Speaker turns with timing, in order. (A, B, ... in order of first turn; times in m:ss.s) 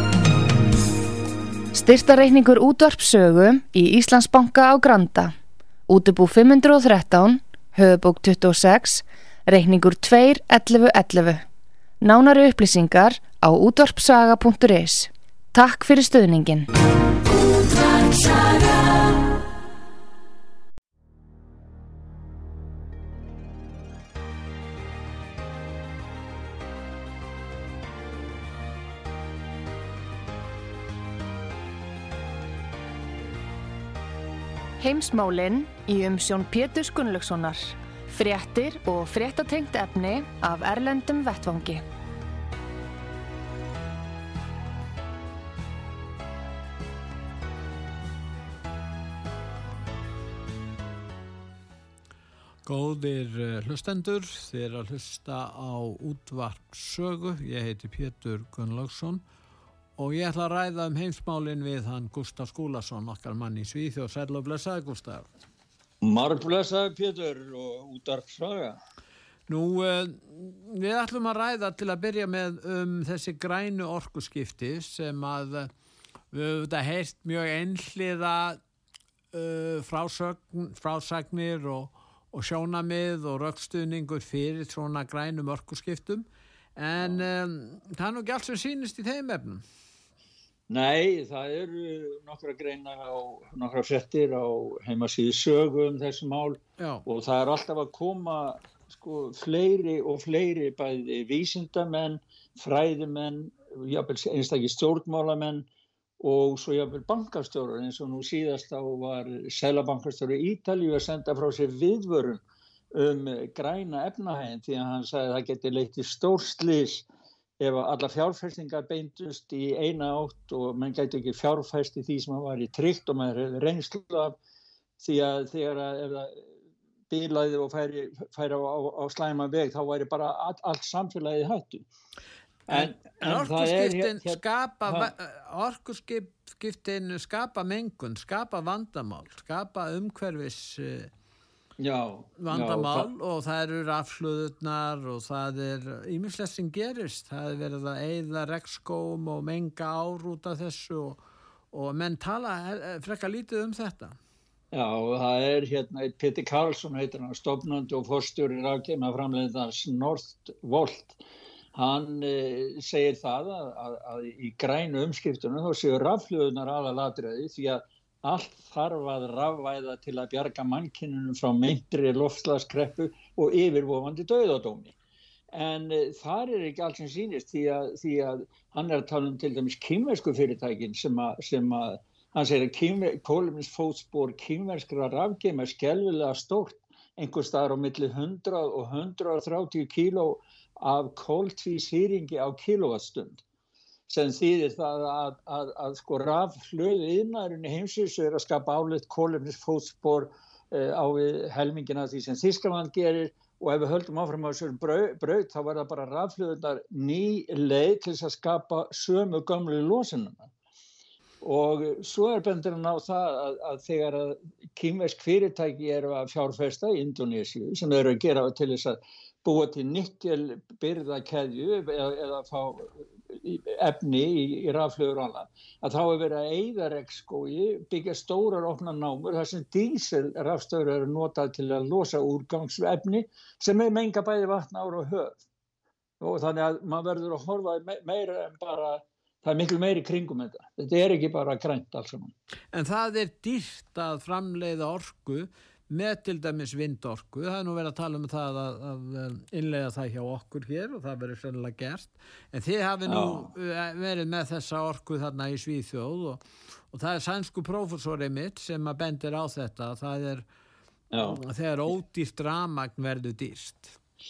0:01.7-0:05.3 A
0:05.9-0:11.4 A
0:12.0-0:16.7 A
0:17.5-0:18.8 A
0:34.8-0:41.8 A
0:52.6-0:59.2 B
1:00.0-1:05.3 B
1:06.0-1:08.8 C
1:09.5-1:15.7 B
1:16.3-1:18.6 B
1:19.3-1:26.2 B
1:26.8-1:29.6 B
1:27.0-1:27.3 C
1:30.7-1:45.7 C
1:36.8-1:37.0 B
1:46.2-1:57.0 C
1:57.6-2:04.4 C
2:05.0-2:06.5 C
2:07.1-2:11.9 C
2:12.7-2:15.1 C
2:12.7-2:21.1 B
2:21.8-2:23.1 C
2:22.4-2:31.2 B
2:31.7-2:34.2 B
2:34.7-2:41.2 C
2:41.7-2:54.9 C
2:55.5-3:13.4 C
3:14.1-3:30.5 C
3:31.4-3:55.4 C
3:56.2-4:02.3 C
4:02.7-4:20.4 B
4:13.0-4:13.5 C
4:21.1-4:21.4 C
4:21.2-4:24.0 B